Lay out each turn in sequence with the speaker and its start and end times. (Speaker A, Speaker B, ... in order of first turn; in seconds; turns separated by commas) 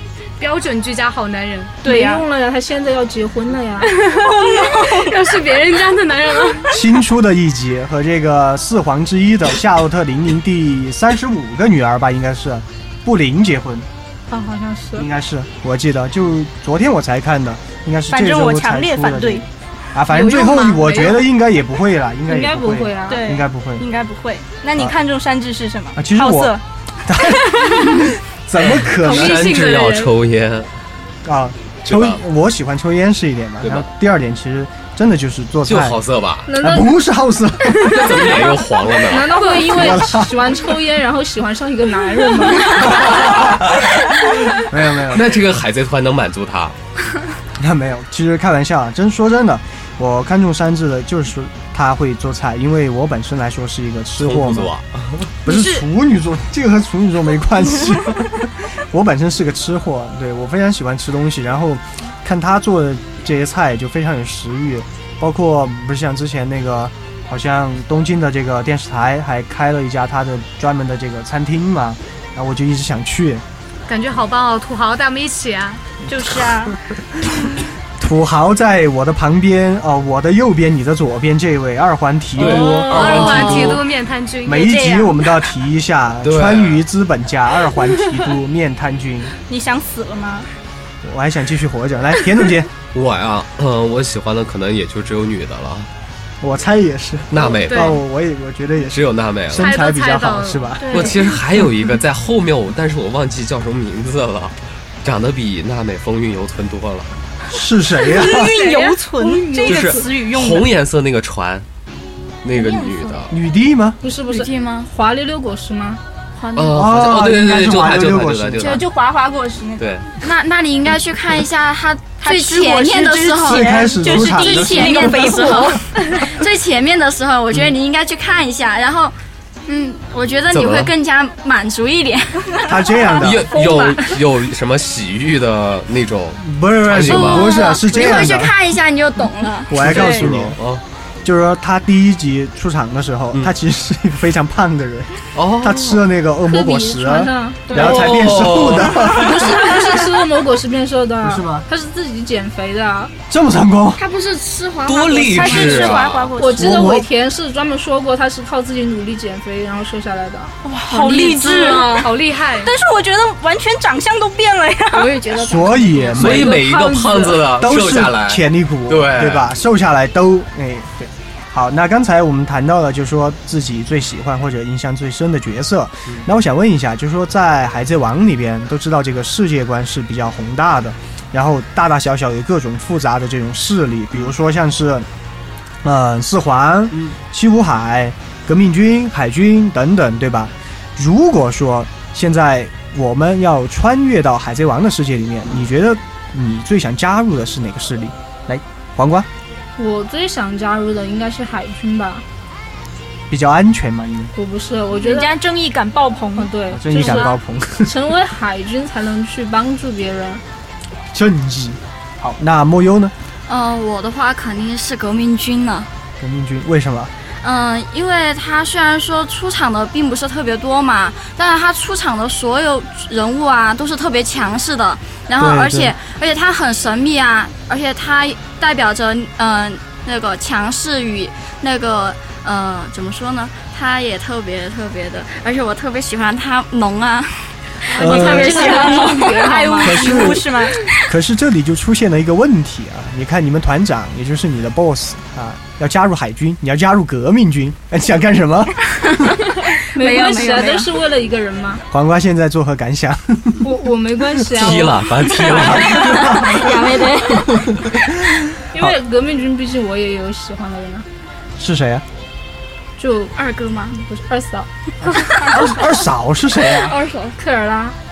Speaker A: 0.4-1.8, Speaker B: 1.8-2.2, Speaker C: 1.8-3.9, Speaker B: 4.0-5.2, Speaker A: 4.0-6.8, Speaker D: 6.7-13.9, Speaker C: 14.3-15.1, Speaker D: 14.9-23.9, Speaker B: 18.1-19.4, Speaker A: 20.1-21.3, Speaker C: 22.3-23.2, Speaker B: 23.1-26.6, Speaker D: 25.9-29.6, Speaker E: 28.7-30.7, Speaker A: 29.0-30.1, Speaker D: 31.2-36.0, Speaker E: 31.9-32.2, Speaker E: 33.6-33.9, Speaker E: 35.6-36.5, Speaker C: 36.5-36.9, Speaker D: 36.6-38.4, Speaker E: 37.8-39.4, Speaker C: 39.0-42.9, Speaker A: 39.4-39.7, Speaker D: 39.7-40.3, Speaker D: 42.7-43.8, Speaker E: 42.8-46.8, Speaker D: 44.6-45.3, Speaker D: 47.6-54.7, Speaker E: 54.2-55.3, Speaker D: 55.4-73.5, Speaker A: 73.9-75.9, Speaker B: 76.1-76.8, Speaker D: 78.0-83.8, Speaker E: 82.4-83.8, Speaker A: 82.5-84.8, Speaker B: 82.6-83.3, Speaker D: 84.5-89.3, Speaker B: 84.5-85.2, Speaker E: 86.2-86.8, Speaker B: 89.5-90.5, Speaker D: 91.0-92.7, Speaker E: 92.9-95.9, Speaker D: 96.4-101.1, Speaker E: 97.3-98.0, Speaker A: 97.5-98.0, Speaker E: 98.9-99.8, Speaker A: 99.5-100.8, Speaker B: 100.8-101.3, Speaker E: 100.9-107.1, Speaker D: 107.5-108.5, Speaker B: 108.0-110.7, Speaker A: 108.3-109.0, Speaker C: 109.1-110.1, Speaker E: 109.7-111.7, Speaker E: 112.4-113.3, Speaker B: 112.5-113.2, Speaker D: 113.3-114.0, Speaker C: 114.0-116.0, Speaker F: 114.3-114.9, Speaker F: 116.4-116.7, Speaker E: 116.5-118.9, Speaker D: 116.7-118.8, Speaker B: 118.6-119.9, Speaker E: 119.8-120.1, Speaker F: 120.2-134.0, Speaker B: 122.2-125.8, Speaker D: 123.4-125.8, Speaker E: 130.5-130.9, Speaker D: 132.6-133.6, Speaker E: 133.2-138.0, Speaker B: 133.5-133.9, Speaker D: 136.4-138.6, Speaker F: 137.1-139.9, Speaker D: 139.7-140.6, Speaker E: 139.8-140.8, Speaker D: 141.2-149.4, Speaker E: 145.3-146.0, Speaker C: 146.5-147.8, Speaker B: 147.7-148.1, Speaker E: 147.7-149.7, Speaker C: 149.1-153.1, Speaker D: 151.2-151.7, Speaker D: 153.3-154.0, Speaker F: 153.9-156.0, Speaker E: 154.8-156.3, Speaker B: 155.3-156.9, Speaker C: 156.4-160.6, Speaker D: 156.6-157.1, Speaker B: 160.6-165.2, Speaker A: 161.0-162.7, Speaker F: 161.0-162.0, Speaker F: 164.9-166.4, Speaker D: 165.4-166.7, Speaker E: 166.1-169.5, Speaker C: 166.2-167.4, Speaker D: 167.4-185.1, Speaker D: 185.8-199.3, Speaker C: 199.8-202.2, Speaker D: 203.3-204.3, Speaker C: 204.3-205.3, Speaker B: 204.9-207.3, Speaker C: 206.3-210.4, Speaker D: 206.7-208.0, Speaker D: 211.1-213.1, Speaker F: 213.5-215.9, Speaker D: 216.2-217.1, Speaker F: 217.4-239.5, Speaker D: 225.4-225.9, Speaker C: 237.9-240.3, Speaker D: 237.9-238.6, Speaker B: 238.0-240.8, Speaker D: 239.8-249.4, Speaker C: 249.9-251.8, Speaker B: 249.9-250.9, Speaker D: 251.9-258.9, Speaker C: 253.6-255.0, Speaker E: 254.5-256.4, Speaker F: 256.2-257.7, Speaker C: 258.7-261.1, Speaker D: 261.6-262.1, Speaker C: 263.0-263.4, Speaker F: 263.4-264.0, Speaker C: 263.9-265.5, Speaker D: 265.0-267.0, Speaker F: 266.8-267.4, Speaker C: 267.4-267.9